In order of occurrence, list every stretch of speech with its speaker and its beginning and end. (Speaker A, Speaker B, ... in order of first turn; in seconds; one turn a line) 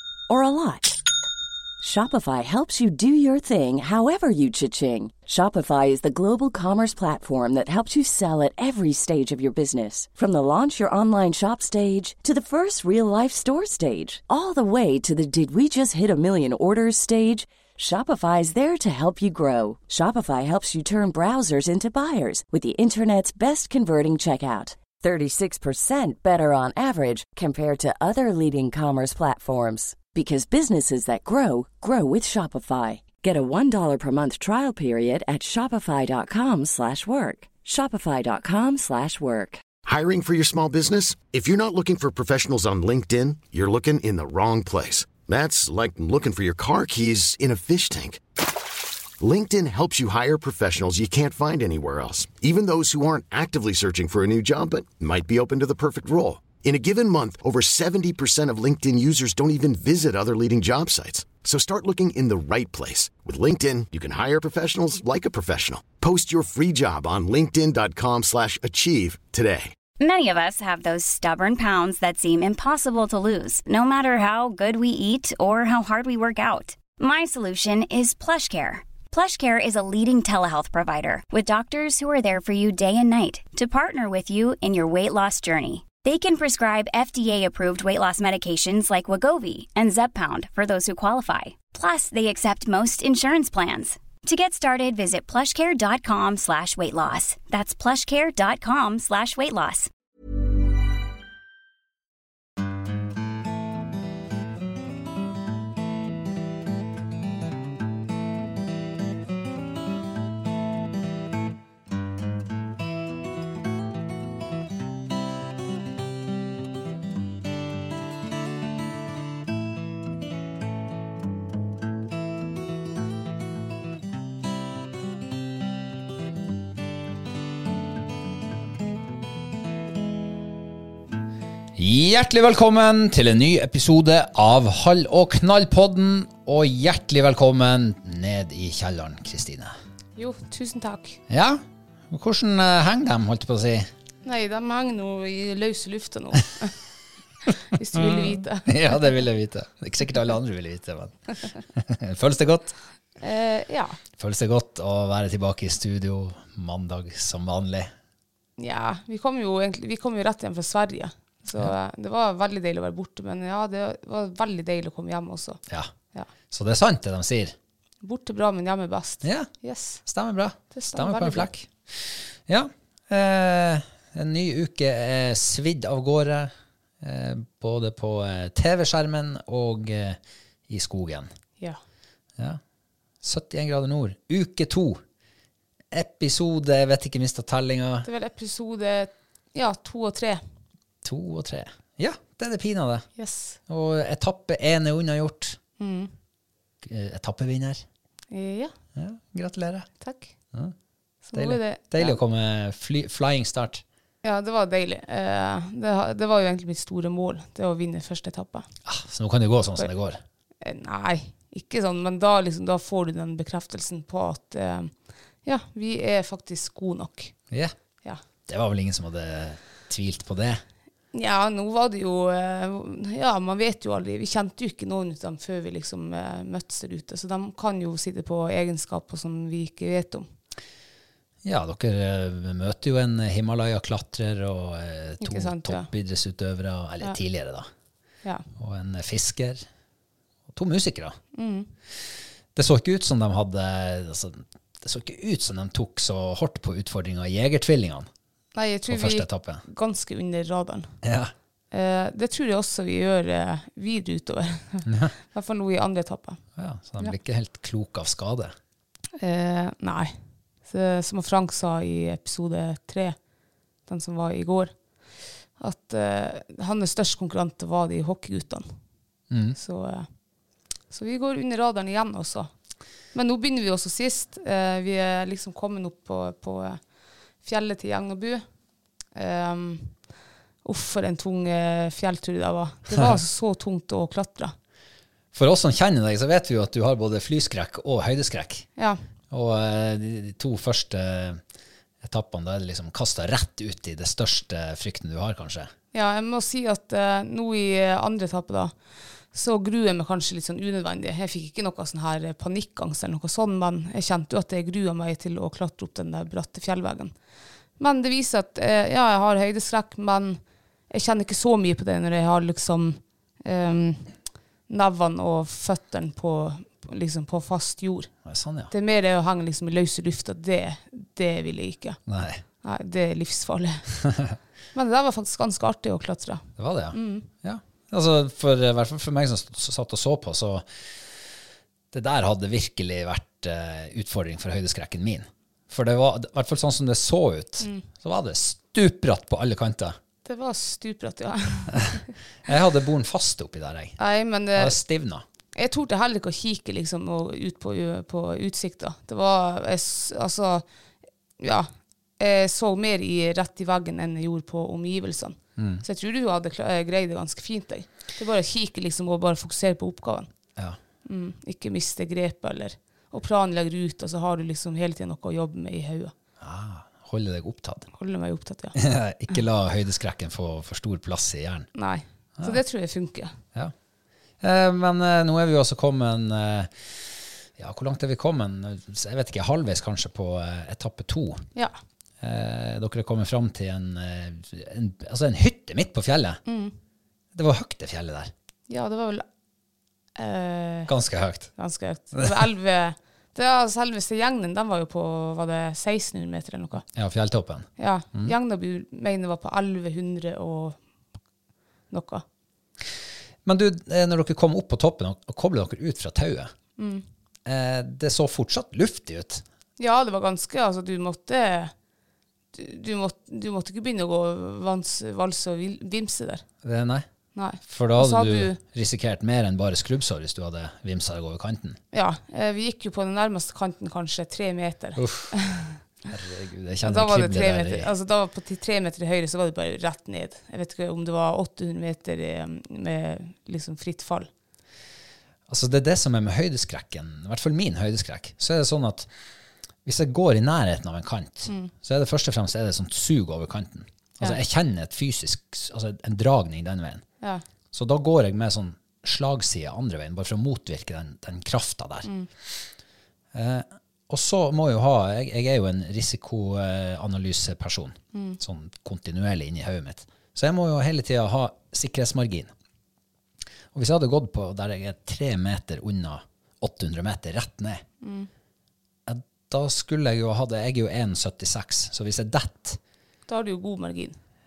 Speaker A: 0.3-1.0
Speaker A: 1.8-39.6
Speaker B: 39.9-48.2
Speaker B: 49.2-69.7
Speaker C: 70.0-99.9
Speaker D: 131.8-139.8
Speaker E: 140.2-141.2
Speaker D: 141.3-143.9
Speaker E: 144.2-146.8
Speaker E: 147.5-149.0
Speaker D: 147.9-152.8
Speaker E: 153.2-154.0
Speaker D: 154.2-157.9
Speaker E: 158.6-165.6
Speaker D: 166.5-167.6
Speaker E: 168.0-170.0
Speaker D: 169.2-169.5
Speaker D: 170.0-181.3
Speaker E: 170.7-171.5
Speaker D: 183.2-185.0
Speaker D: 185.9-188.1
Speaker E: 188.0-190.4
Speaker D: 191.0-193.1
Speaker E: 193.2-193.6
Speaker D: 193.7-195.6
Speaker E: 195.8-196.1
Speaker D: 196.8-197.8
Speaker E: 198.3-198.7
Speaker D: 199.0-199.9
Speaker E: 200.0-200.3
Speaker E: 201.3-202.2
Speaker D: 201.3-203.8
Speaker E: 204.2-208.7
Speaker D: 208.8-210.2
Speaker E: 210.6-217.3
Speaker D: 218.5-220.6
Speaker E: 221.1-230.3
Speaker D: 231.4-237.7
Speaker E: 235.2-235.9
Speaker D: 238.6-239.7
Speaker D: 240.5-241.2
Speaker E: 241.3-241.7
Speaker D: 242.6-248.1
Speaker E: 248.6-250.9
Speaker D: 248.9-249.6
Speaker D: 251.0-251.3
Speaker E: 251.7-256.4
Speaker D: 254.9-255.1
Speaker D: 256.6-258.5
Speaker E: 259.2-263.2
Speaker E: 263.9-264.8
Speaker E: 265.6-268.8
Speaker D: 269.3-269.6
Speaker E: 269.6-270.1
Speaker E: 270.9-272.5
Speaker E: 273.1-276.8
Speaker E: 277.4-278.5
Speaker E: 279.1-280.1
Speaker E: 280.6-284.6
Speaker D: 285.3-288.7
Speaker D: 289.3-291.4
Speaker D: 292.0-295.7
Speaker E: 295.9-307.1
Speaker E: 307.8-314.1
Speaker E: 314.7-318.1
Speaker D: 318.2-318.7
Speaker E: 318.7-322.0
Speaker D: 322.1-322.4
Speaker E: 322.6-323.9
Speaker E: 324.7-327.3
Speaker D: 326.6-331.2
Speaker D: 331.9-340.0
Speaker E: 340.2-342.0
Speaker D: 341.8-344.0
Speaker E: 344.0-344.8
Speaker D: 344.6-345.2
Speaker E: 345.5-350.6
Speaker E: 351.4-360.3
Speaker D: 355.6-355.8
Speaker E: 361.1-366.1
Speaker D: 366.4-367.9
Speaker E: 367.9-368.8
Speaker D: 368.8-371.7
Speaker E: 371.8-373.4
Speaker D: 374.4-381.5
Speaker D: 382.2-386.4
Speaker E: 386.5-386.8
Speaker D: 387.3-388.3
Speaker E: 388.7-389.3
Speaker E: 390.2-390.9
Speaker D: 390.9-391.5
Speaker E: 391.6-396.9
Speaker D: 396.9-398.3
Speaker E: 397.8-400.8
Speaker E: 401.9-402.2
Speaker D: 403.4-406.5
Speaker E: 406.8-407.0
Speaker D: 407.4-409.4
Speaker E: 409.8-411.7
Speaker E: 412.5-416.4
Speaker D: 416.6-417.1
Speaker E: 417.4-418.6
Speaker D: 417.6-421.8
Speaker E: 421.9-425.8
Speaker D: 425.0-425.4
Speaker D: 426.1-427.9
Speaker E: 426.8-434.3
Speaker D: 435.5-439.1
Speaker D: 439.9-447.1
Speaker E: 441.5-441.7
Speaker D: 447.7-452.6
Speaker E: 452.0-452.3
Speaker D: 453.3-462.5
Speaker E: 458.1-458.4
Speaker D: 463.7-467.8
Speaker E: 468.0-468.3
Speaker D: 469.1-472.8
Speaker E: 473.3-474.2